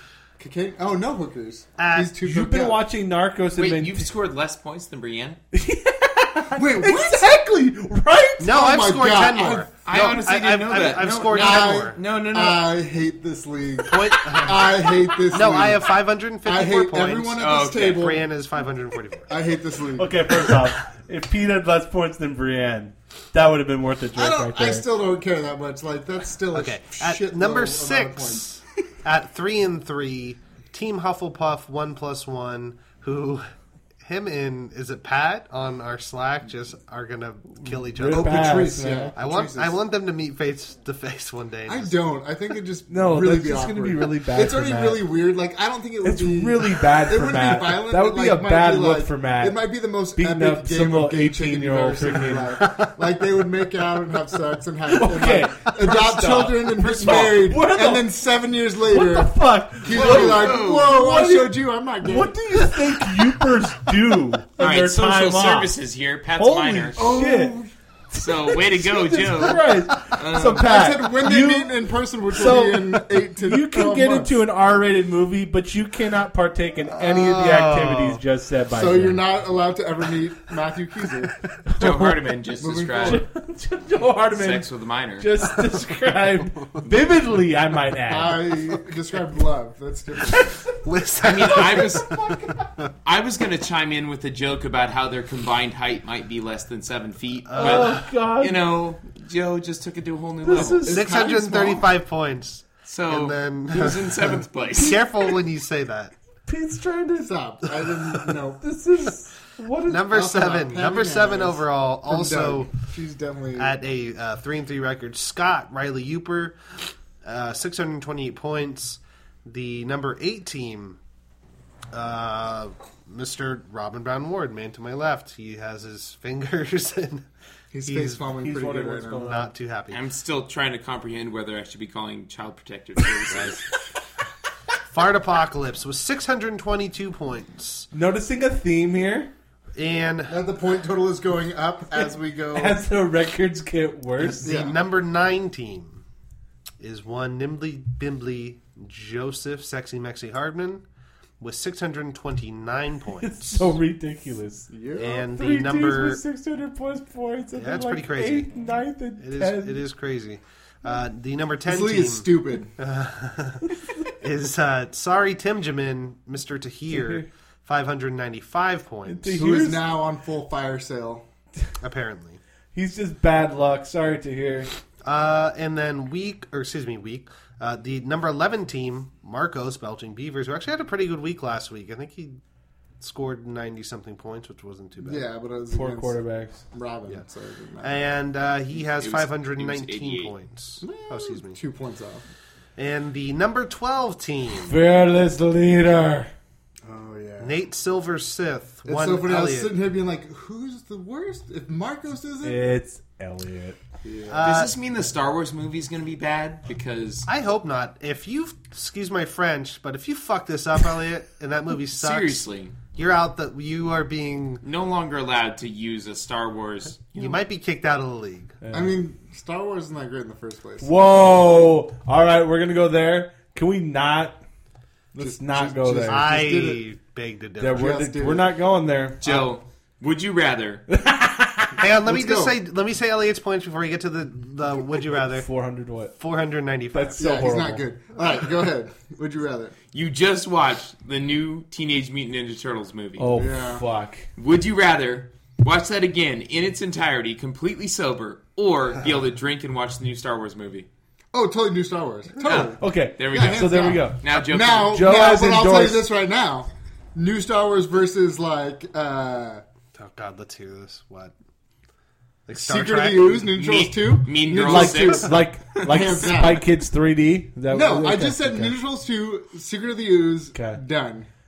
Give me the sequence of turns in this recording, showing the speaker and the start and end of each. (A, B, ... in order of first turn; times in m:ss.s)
0:00.4-0:02.8 A
0:01.8-0:02.1 B
0:02.2-0:04.1 C
0:03.6-0:05.4 D
0:05.5-0:08.5 C
0:06.5-0:07.4 A
0:08.4-0:12.0 B
0:08.4-0:09.7 A
0:09.8-0:12.8 D
0:11.2-0:18.3 A
0:13.9-0:19.3 B
0:17.4-0:18.2 D
0:19.3-0:20.4 A
0:20.0-0:24.9 C
0:20.3-0:20.6 B
0:24.2-0:28.5 A
0:26.5-0:33.5 B
0:34.0-0:42.0 B
0:37.6-0:39.2 C
0:38.1-0:39.8 A
0:41.7-1:02.8 A
0:42.9-0:45.1 C
0:46.0-0:49.6 C
0:50.2-0:52.6 C
0:54.9-0:58.2 C
0:56.8-0:57.4 D
0:58.9-1:05.7 C
0:59.9-1:00.9 D
1:04.6-1:07.0 D
1:06.4-1:07.6 C
1:07.0-1:07.7 A
1:08.1-1:19.2 C
1:08.2-1:10.6 D
1:10.2-1:14.4 A
1:16.9-1:18.2 B
1:18.7-1:23.2 A
1:21.8-1:23.2 D
1:23.0-1:28.4 C
1:24.3-1:25.3 D
1:28.1-1:30.6 A
1:30.8-1:32.9 B
1:31.2-1:32.4 D
1:33.0-1:41.2 D
1:37.5-1:38.1 B
1:37.6-1:38.6 C
1:40.4-1:41.1 C
1:40.6-1:41.9 A
1:40.9-1:46.1 B
1:42.9-1:45.3 D
1:46.5-1:47.3 C
1:47.2-1:48.6 A
1:48.6-1:50.2 C
1:49.9-1:52.7 B
1:50.0-1:53.8 A
1:53.6-2:01.0 B
2:01.9-2:07.3 B
2:07.7-2:09.4 A
2:07.8-2:08.2 B
2:08.4-2:09.5 C
2:09.2-2:10.0 B
2:09.9-2:13.6 D
2:13.3-2:13.6 B
2:14.9-2:17.9 B
2:17.9-2:19.3 C
2:19.7-2:20.4 B
2:20.3-2:22.8 A
2:22.5-2:24.6 C
2:24.2-2:26.0 B
2:24.4-2:24.8 A
2:26.8-2:30.8 B
2:31.4-2:33.7 B
2:33.2-2:39.8 C
2:34.7-2:35.3 A
2:35.0-2:36.2 B
2:37.6-2:38.5 B
2:39.2-2:49.4 B
2:41.6-2:42.7 A
2:46.9-2:47.3 C
2:49.1-2:49.9 C
2:49.4-2:51.2 A
2:51.8-2:52.4 B
2:52.7-2:54.7 C
2:55.0-3:02.4 B
3:03.0-3:05.2 B
3:05.0-3:08.1 A
3:05.7-3:06.6 C
3:07.8-3:11.6 B
3:08.7-3:10.3 D
3:10.8-3:12.2 A
3:12.8-3:14.7 B
3:14.6-3:16.3 C
3:16.8-3:17.6 A
3:17.4-3:19.7 B
3:18.8-3:22.7 A
3:22.4-3:23.8 C
3:24.0-3:24.5 A
3:24.3-3:24.7 B
3:24.4-3:27.3 D
3:27.3-3:34.6 B
3:31.9-3:32.8 D
3:34.6-3:37.4 D
3:37.2-3:38.6 B
3:38.6-3:39.0 C
3:38.7-3:40.9 A
3:40.8-3:44.4 C
3:45.1-3:46.4 C
3:45.2-3:46.8 A
3:46.1-3:47.9 B
3:47.6-3:49.2 C
3:47.7-3:48.5 A
3:49.2-3:50.8 D
3:49.2-3:49.5 A
3:50.9-3:51.8 C
3:51.8-3:55.5 B
3:52.0-3:52.6 A
3:55.3-3:56.2 C
3:56.2-3:57.5 B
3:56.9-3:57.9 C
3:57.2-3:59.7 A
3:59.9-4:03.3 D
4:03.2-4:04.3 C
4:03.3-4:03.9 A
4:04.4-4:10.9 D
4:11.3-4:19.6 A
4:12.4-4:14.9 D
4:12.8-4:16.1 C
4:20.0-4:21.3 B
4:22.5-4:23.5 B
4:22.6-4:26.7 A
4:23.6-4:25.4 D
4:24.7-4:28.7 C
4:27.7-4:31.3 A
4:30.5-4:30.8 C